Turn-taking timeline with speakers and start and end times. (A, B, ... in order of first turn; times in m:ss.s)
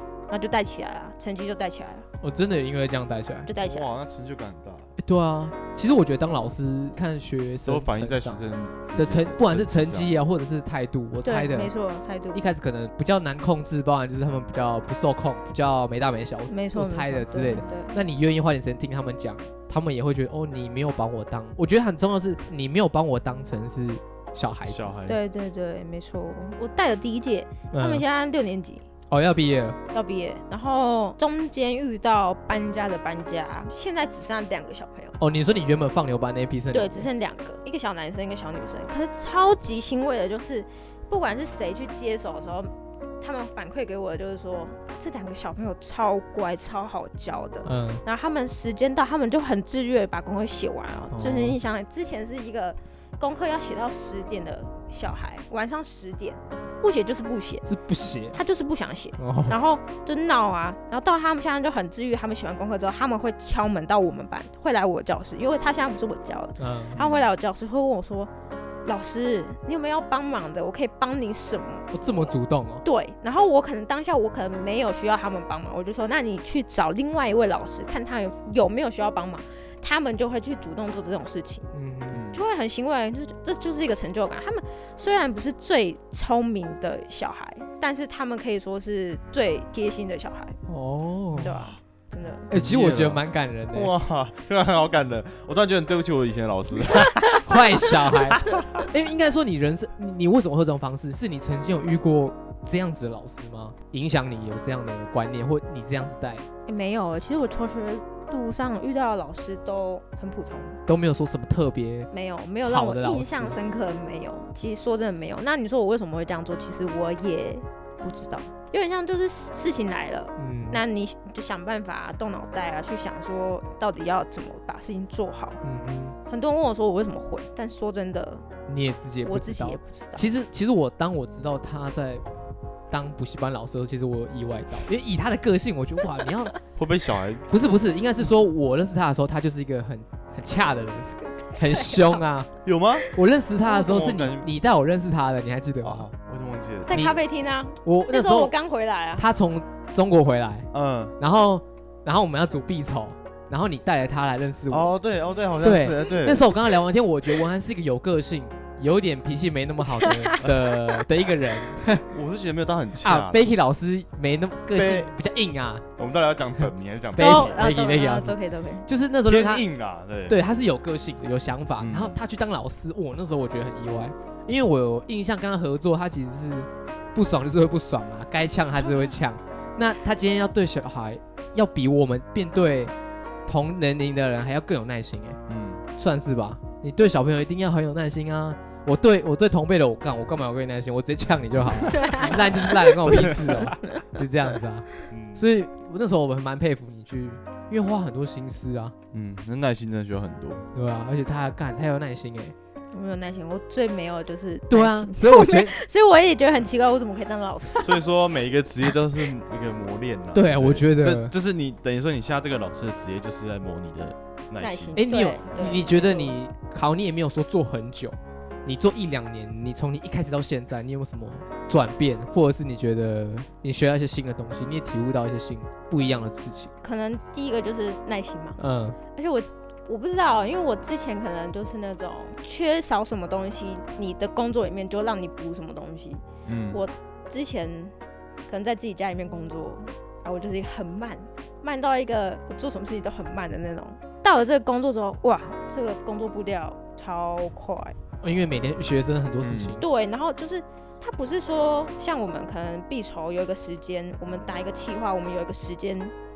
0:00.3-0:02.1 A
0:02.2-0:03.5 B
0:03.5-0:04.0 A
0:03.6-0:04.9 C
0:05.0-0:08.4 B
0:07.6-0:10.1 C
0:09.0-0:11.7 B
0:11.2-0:12.4 A
0:12.3-0:25.0 B
0:16.5-0:18.0 A
0:24.7-0:25.2 C
0:25.1-0:28.8 A
0:27.7-0:28.0 B
0:29.1-0:29.8 B
0:29.9-0:35.2 A
0:35.2-0:37.1 B
0:36.7-0:57.7 A
0:47.6-0:48.0 B
0:51.1-0:51.6 B
0:57.6-0:58.4 B
0:58.3-1:08.3 A
0:59.2-0:59.6 B
1:06.6-1:07.0 B
1:07.0-1:07.3 C
1:08.8-1:21.7 A
1:11.9-1:12.8 B
1:21.7-1:22.3 B
1:22.1-1:22.4 C
1:22.3-1:30.6 A
1:30.7-1:31.5 B
1:31.4-1:31.8 C
1:31.4-1:32.5 A
1:32.5-1:33.9 B
1:32.5-1:37.6 C
1:37.4-1:46.4 B
1:38.3-1:38.8 C
1:46.7-1:50.8 A
1:50.9-1:52.1 B
1:52.1-2:05.6 A
1:52.6-1:53.6 B
2:00.4-2:00.8 B
2:05.6-2:06.2 B
2:06.3-2:08.4 A
2:08.7-2:12.2 B
2:09.2-2:10.3 A
2:12.9-2:16.6 B
2:16.8-2:17.8 C
2:17.5-2:22.5 B
2:21.5-2:22.2 A
2:22.6-2:23.1 C
2:23.1-2:26.1 B
2:23.6-2:24.5 C
2:25.8-2:27.1 C
2:26.9-2:29.3 A
2:26.9-2:27.2 B
2:27.8-2:28.5 B
2:29.2-2:34.9 B
2:30.7-2:31.1 C
2:34.7-2:36.5 C
2:35.6-2:42.1 B
2:40.0-2:40.4 A
2:42.1-2:43.4 C
2:43.0-2:45.8 B
2:44.8-2:45.1 C
2:46.0-2:47.6 C
2:46.6-2:49.7 B
2:47.2-2:48.9 A
2:49.2-2:50.4 C
2:50.3-3:02.9 B
2:51.8-2:52.2 C
3:03.4-3:05.4 B
3:05.5-3:05.8 C
3:06.0-3:18.9 B
3:11.9-3:13.3 A
3:12.7-3:13.8 C
3:15.1-3:15.4 C
3:19.1-3:20.7 C
3:20.7-3:22.6 B
3:22.9-3:28.1 A
3:24.7-3:25.8 B
3:27.8-3:35.0 C
3:30.3-3:31.3 B
3:34.6-3:36.3 A
3:35.0-3:46.7 B
3:46.8-3:48.6 A
3:48.6-3:49.0 B
3:49.1-3:57.9 A
3:56.5-3:56.8 C
3:58.5-4:08.0 A
4:08.2-4:09.8 B
4:09.4-4:09.8 C
4:09.8-4:16.1 A